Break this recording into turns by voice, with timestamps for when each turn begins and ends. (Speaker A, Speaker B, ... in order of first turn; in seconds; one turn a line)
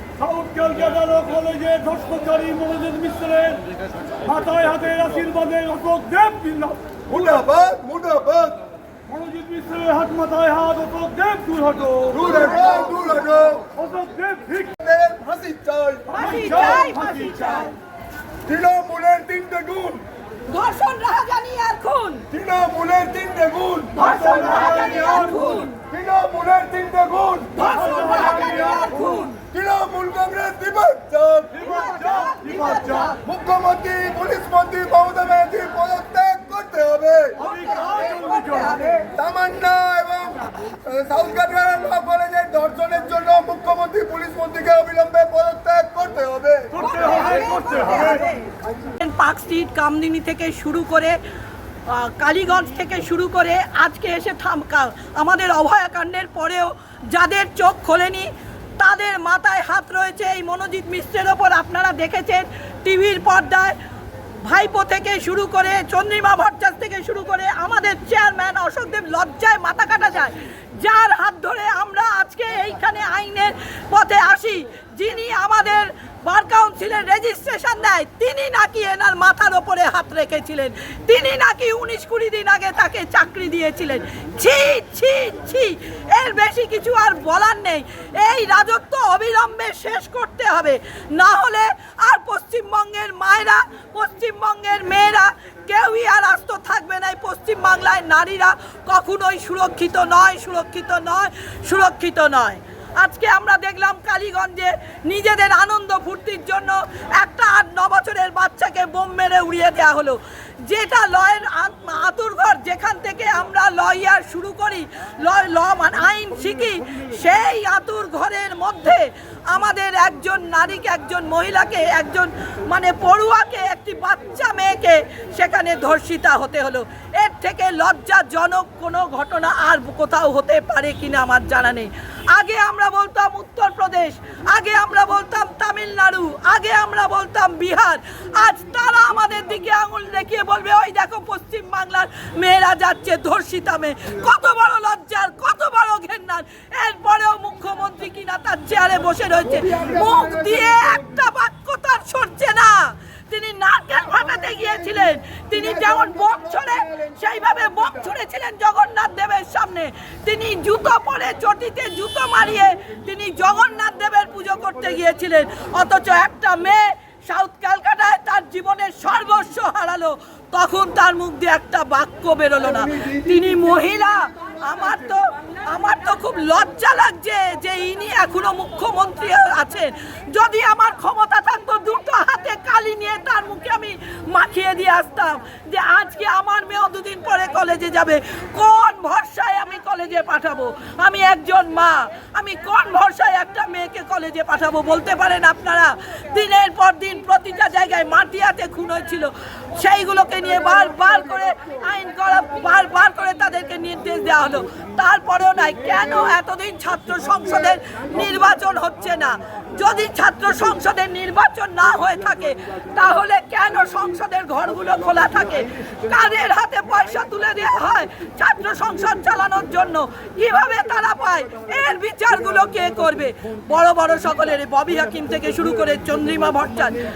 Speaker A: 0.2-3.7
Speaker A: 4.2-6.8
Speaker B: 7.1-8.6
Speaker A: 9.1-12.1
Speaker B: 12.1-13.7
Speaker A: 13.8-14.6
Speaker B: 14.5-16.1
Speaker C: 16.1-17.7
Speaker B: 18.5-20.0
Speaker C: 20.5-22.2
Speaker B: 22.3-24.7
Speaker C: 24.0-25.8
Speaker B: 25.9-28.9
Speaker C: 27.6-29.4
Speaker B: 29.5-31.6
Speaker C: 31.6-33.2
Speaker B: 33.2-37.4
Speaker C: 37.4-39.0
Speaker B: 39.1-46.8
Speaker C: 46.8-48.5
Speaker C: 49.0-51.2
Speaker C: 51.9-63.8
Speaker C: 64.4-227.0
Speaker B: 149.6-151.0
Speaker B: 155.5-156.8